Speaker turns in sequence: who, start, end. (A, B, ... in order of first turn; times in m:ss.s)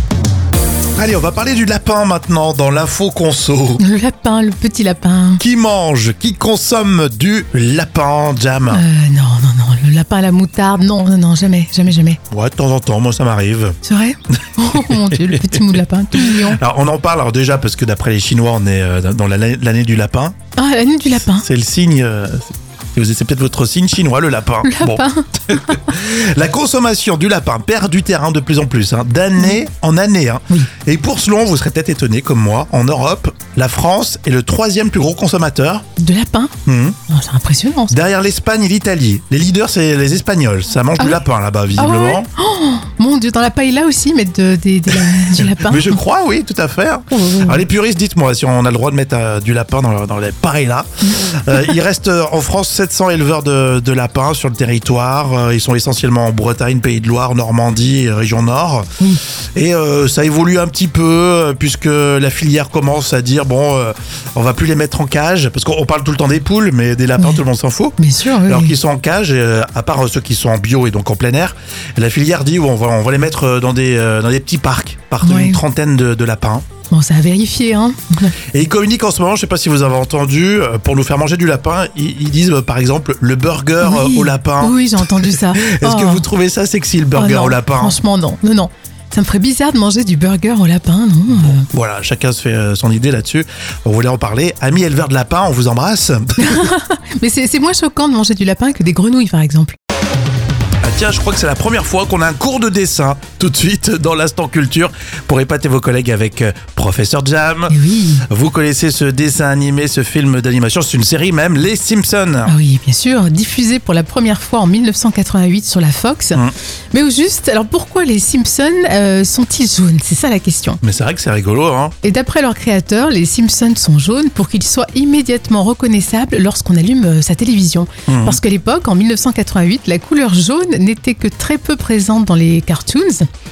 0:01.0-0:03.8 A
0:03.8-0:05.4 B
0:05.4-0:08.8 A
0:08.7-0:12.2 B
0:12.3-0:13.8 A
0:13.8-0:16.6 B
0:14.7-0:15.6 A
0:16.2-0:20.4 A
0:20.6-0:21.4 B
0:21.4-0:35.9 A
0:24.6-0:25.6 B
0:36.0-0:36.5 B
0:36.7-0:37.0 A
0:37.1-0:38.0 B
0:37.9-0:42.3 A
0:41.0-0:41.2 B
0:41.8-0:46.0 B
0:45.6-0:58.9 A
0:47.1-0:47.6 B
0:51.1-0:51.7 B
0:59.6-1:16.6 A
1:08.0-1:08.7 B
1:15.2-1:15.6 B
1:16.9-1:18.3 B
1:18.5-1:28.0 A
1:23.8-1:26.3 B
1:27.1-1:31.7 B
1:31.4-1:36.6 A
1:36.4-1:39.8 B
1:40.8-1:47.8 A
1:47.7-1:48.2 B
1:48.3-1:52.5 A
1:52.5-1:56.4 B
1:56.9-2:00.8 B
2:00.8-2:02.0 A
2:02.0-2:13.3 B
2:08.1-2:08.4 A